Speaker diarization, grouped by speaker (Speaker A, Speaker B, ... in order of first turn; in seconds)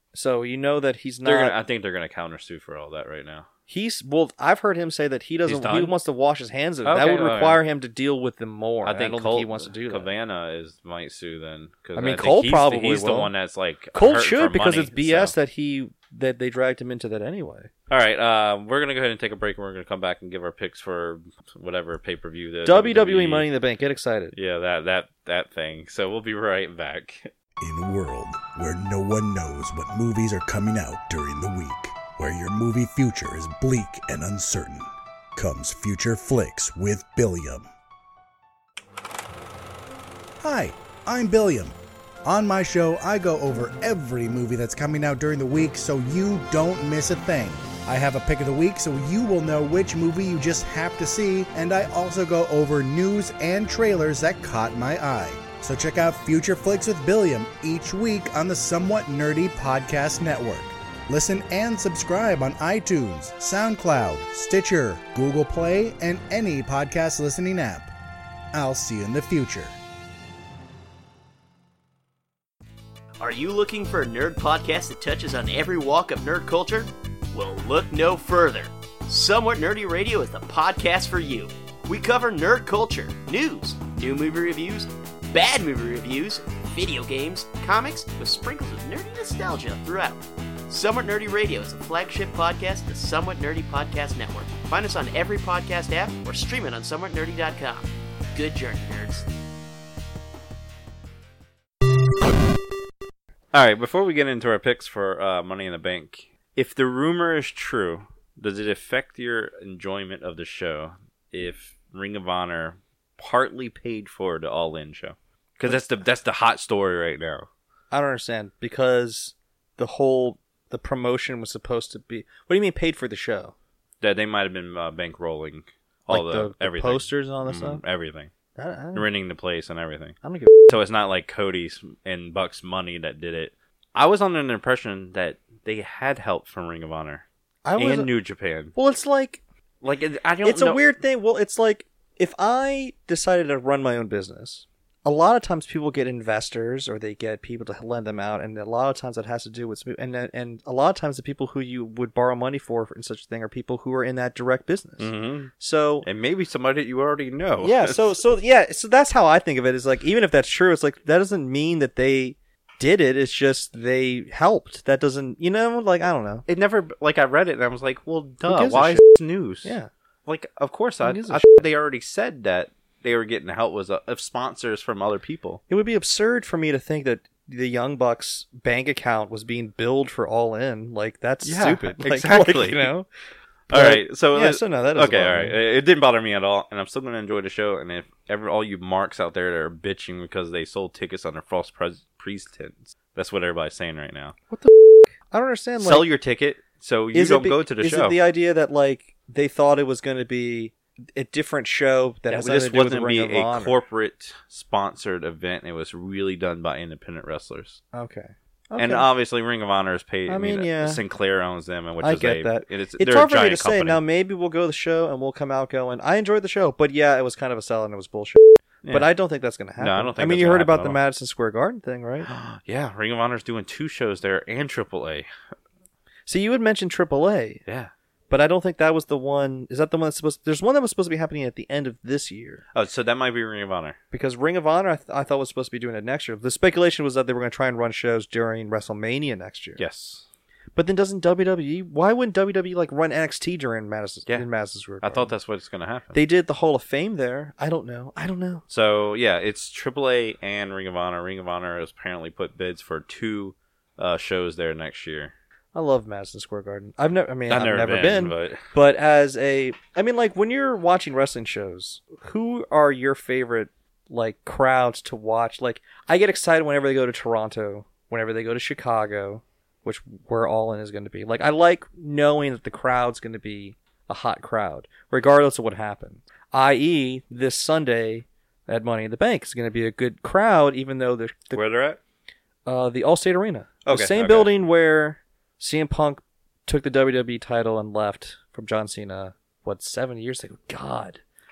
Speaker A: 0.1-1.6, 3.7-10.1, 12.0-13.3, 13.9-17.7, 22.6-24.3, 117.9-123.5, 126.1-127.8, 128.6-129.1, 130.2-130.8, 137.7-138.1, 138.7-139.4, 140.4-156.1, 157.6-166.5, 168.5-169.0, 169.6-169.9, 171.0-171.4, 175.7-183.1, 183.7-185.6, 194.5-196.1, 197.1-203.8, 207.9-209.1, 210.3-211.0, 212.0-222.3, 226.3-227.6, 228.3-232.6, 234.1-239.8, 240.8-245.3, 246.1-248.6, 255.7-281.6, 282.7-291.2
Speaker B: 1.2-3.5, 5.5-5.9, 6.8-7.6, 8.8-15.3, 17.9-23.5, 24.3-27.3, 103.5-117.5, 124.0-128.3, 128.9-130.2, 130.7-137.2, 137.8-138.7, 139.8-140.8, 155.0-155.5, 156.0-158.1, 166.5-175.6, 181.4-182.9, 183.7-194.4, 195.8-198.2, 202.3-207.8, 208.8-214.0, 219.8-221.0, 222.2-225.3, 227.7-227.9, 232.7-234.0, 239.8-240.2, 245.0-246.2, 248.7-255.3, 257.5-258.7, 281.5-282.0, 283.9-284.5
Speaker C: 27.6-37.7, 40.4-41.7, 42.2-67.9, 68.5-69.8
Speaker D: 73.2-99.3